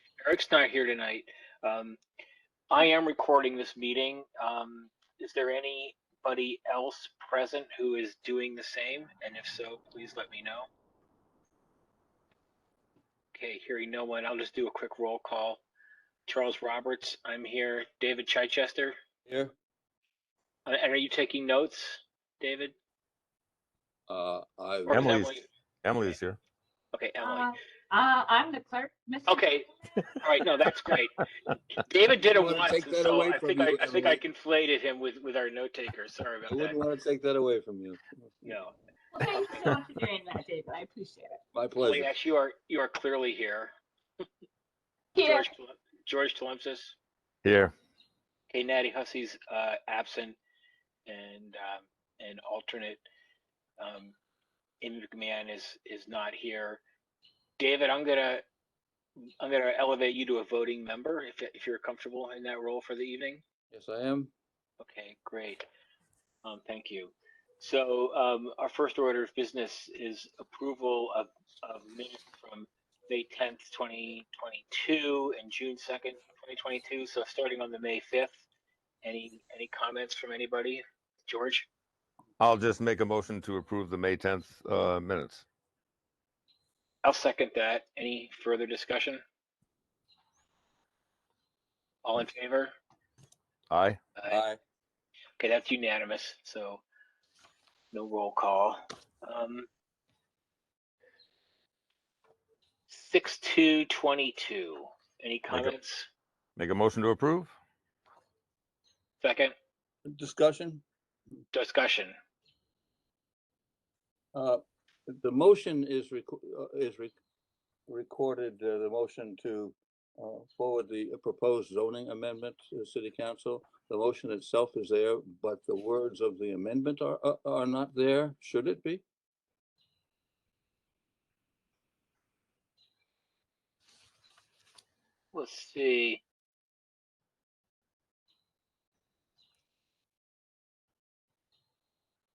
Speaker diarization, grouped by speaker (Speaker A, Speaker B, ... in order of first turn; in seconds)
Speaker A: 0.2-2.0, 2.7-10.7, 13.3-15.6, 16.3-19.0, 20.6-22.7, 24.9-25.4, 26.9-27.5, 29.3-29.7, 30.2-31.2, 31.7-36.8, 38.4-38.7, 41.8-43.7, 45.2-47.0, 48.5-50.4, 51.1-53.0, 53.8-54.1, 54.8-56.8, 57.6-58.4, 59.4-63.4, 64.8-65.7, 66.4-78.4, 79.0-81.7, 87.0-89.2, 92.0-92.7, 95.4-96.8, 97.9-99.7, 102.9-106.1, 109.2-109.5, 111.5-112.1, 135.3-136.2
Speaker B: 24.1-25.0, 32.2-34.2, 36.5-38.3, 41.5-42.1, 63.7-64.3, 94.3-94.6, 110.1-110.8, 114.3-117.1, 117.9-129.0
Speaker C: 24.9-26.4, 47.4-47.7, 82.4-85.4, 93.7-94.0, 105.5-105.8, 106.6-107.5
Speaker D: 27.2-30.0, 39.1-41.4, 45.1-45.5